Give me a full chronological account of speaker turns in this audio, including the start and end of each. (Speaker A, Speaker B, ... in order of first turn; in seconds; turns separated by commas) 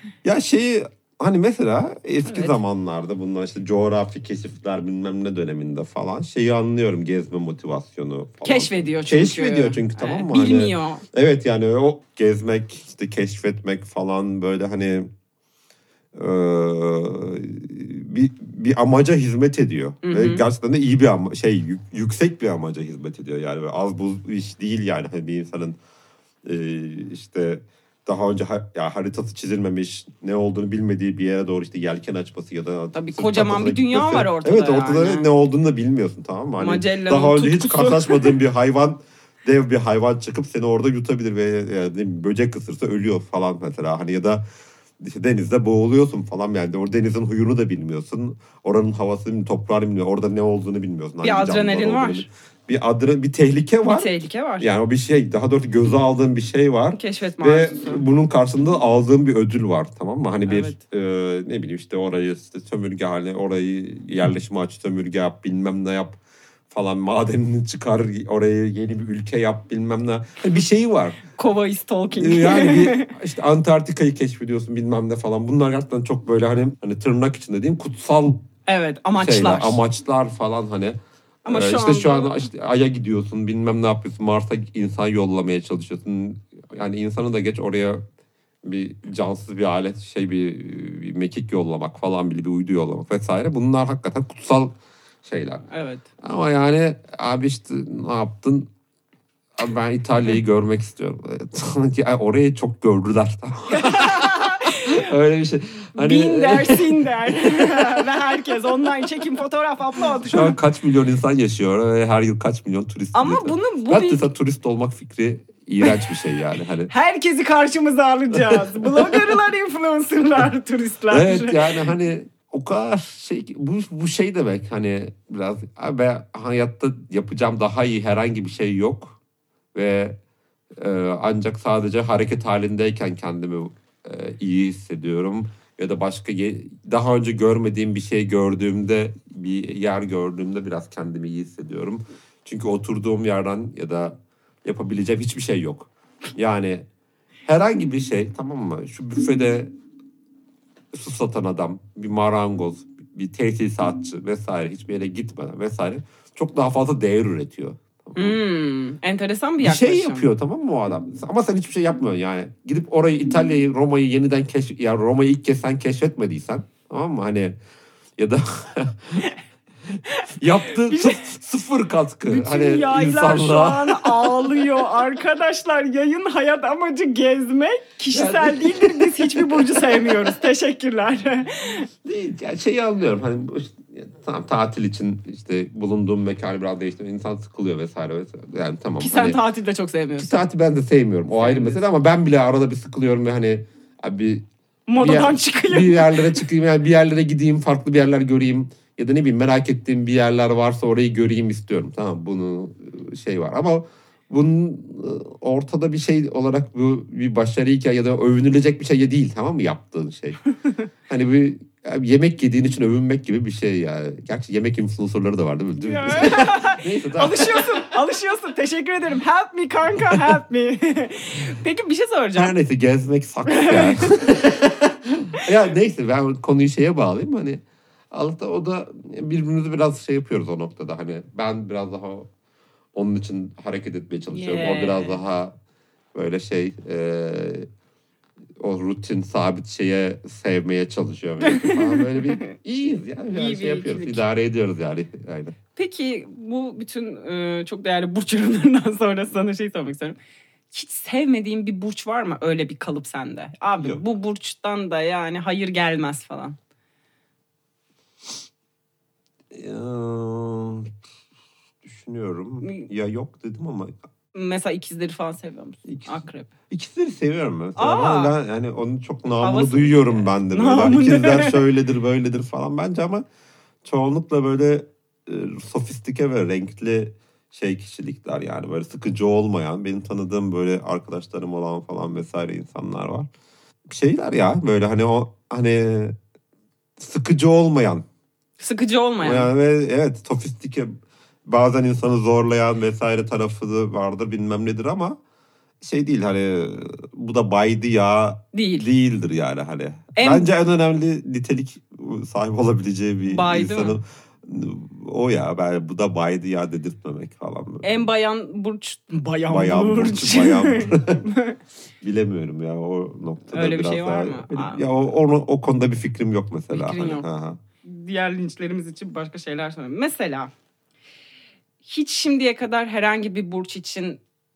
Speaker A: 0.2-15.1, Speaker B: 2.2-2.6, Speaker B: 8.4-11.0, Speaker A: 16.1-25.8, Speaker B: 20.0-20.4, Speaker A: 26.4-44.4, Speaker B: 32.9-35.3, Speaker B: 36.6-38.4, Speaker A: 45.0-66.2, Speaker B: 51.2-52.3, Speaker B: 53.8-54.7, Speaker B: 56.9-58.0, Speaker B: 60.5-60.8, Speaker A: 66.7-71.2, Speaker B: 71.3-73.1, Speaker A: 72.2-78.4, Speaker B: 78.7-79.8, Speaker A: 79.1-88.0, Speaker B: 81.5-82.5, Speaker A: 88.6-95.6, Speaker B: 95.7-96.0, Speaker A: 96.2-98.7, Speaker A: 99.6-108.1, Speaker B: 103.7-105.1, Speaker B: 106.0-110.5, Speaker A: 110.2-116.9, Speaker B: 113.1-114.2, Speaker B: 115.8-116.1, Speaker B: 116.9-121.9, Speaker A: 118.3-119.3, Speaker A: 121.1-129.2, Speaker A: 129.7-130.2, Speaker A: 130.7-146.8, Speaker A: 147.4-149.7, Speaker A: 150.9-158.4, Speaker B: 158.2-160.3, Speaker A: 159.6-167.6, Speaker A: 168.2-169.3, Speaker A: 169.9-175.0, Speaker B: 170.9-171.2, Speaker B: 172.2-181.9, Speaker A: 178.1-180.4, Speaker A: 182.0-189.4, Speaker B: 189.0-190.4, Speaker A: 190.2-194.4, Speaker B: 191.4-191.8, Speaker B: 194.9-196.4, Speaker A: 195.0-210.4, Speaker A: 211.1-218.0, Speaker B: 215.8-222.5, Speaker A: 222.3-232.3, Speaker B: 223.5-224.1, Speaker A: 232.9-235.5, Speaker B: 234.3-235.2, Speaker A: 236.1-237.7, Speaker A: 238.6-245.6, Speaker B: 241.4-242.5, Speaker B: 243.3-244.2, Speaker B: 245.8-250.2, Speaker B: 250.7-256.6, Speaker A: 259.5-260.9, Speaker A: 261.8-263.9, Speaker B: 262.6-262.9, Speaker B: 264.3-266.5, Speaker A: 265.8-273.2, Speaker B: 267.8-268.3, Speaker B: 269.4-271.6, Speaker A: 273.8-283.3, Speaker A: 283.9-286.1, Speaker A: 287.0-288.0, Speaker B: 288.6-289.5, Speaker A: 289.2-295.2, Speaker A: 295.8-308.1, Speaker B: 298.5-298.9, Speaker B: 300.1-300.5, Speaker B: 303.2-304.0, Speaker B: 307.8-311.6, Speaker A: 309.5-311.2, Speaker A: 312.0-317.6, Speaker B: 313.5-314.8, Speaker B: 316.7-317.3, Speaker B: 317.8-320.5, Speaker B: 321.8-324.2